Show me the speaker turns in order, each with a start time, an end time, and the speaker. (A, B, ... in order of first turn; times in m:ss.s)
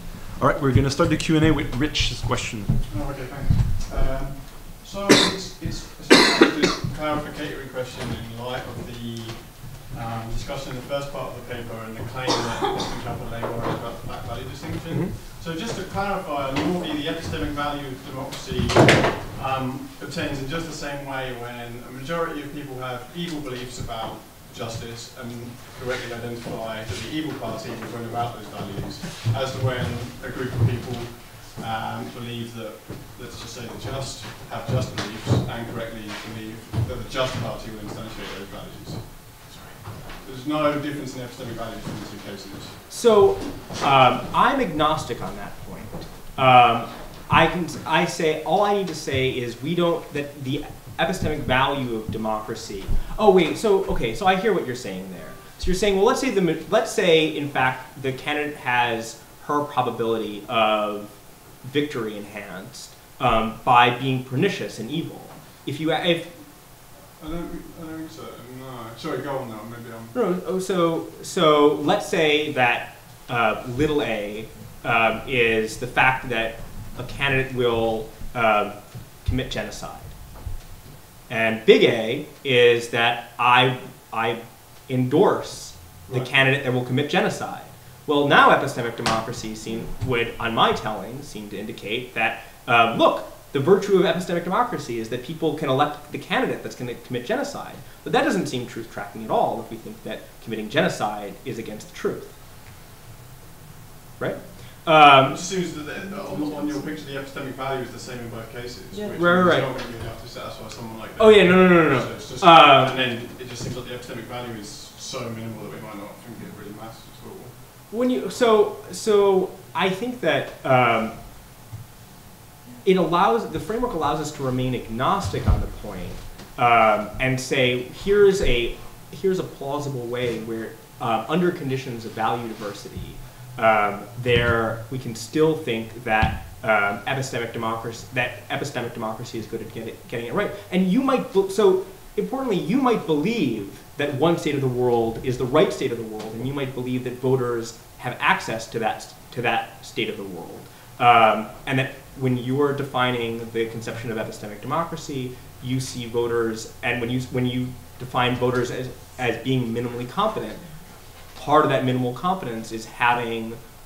0:00.3-0:02.8 A
0:02.9-0:42.8 B
0:42.9-1:06.4 C
1:07.2-1:10.1 B
1:10.1-1:20.1 C
1:21.3-1:42.4 C
1:44.2-1:45.4 C
1:45.2-1:57.5 B
1:49.1-1:49.7 C
1:51.2-1:53.0 C
1:57.9-2:01.1 C
2:02.8-2:43.6 C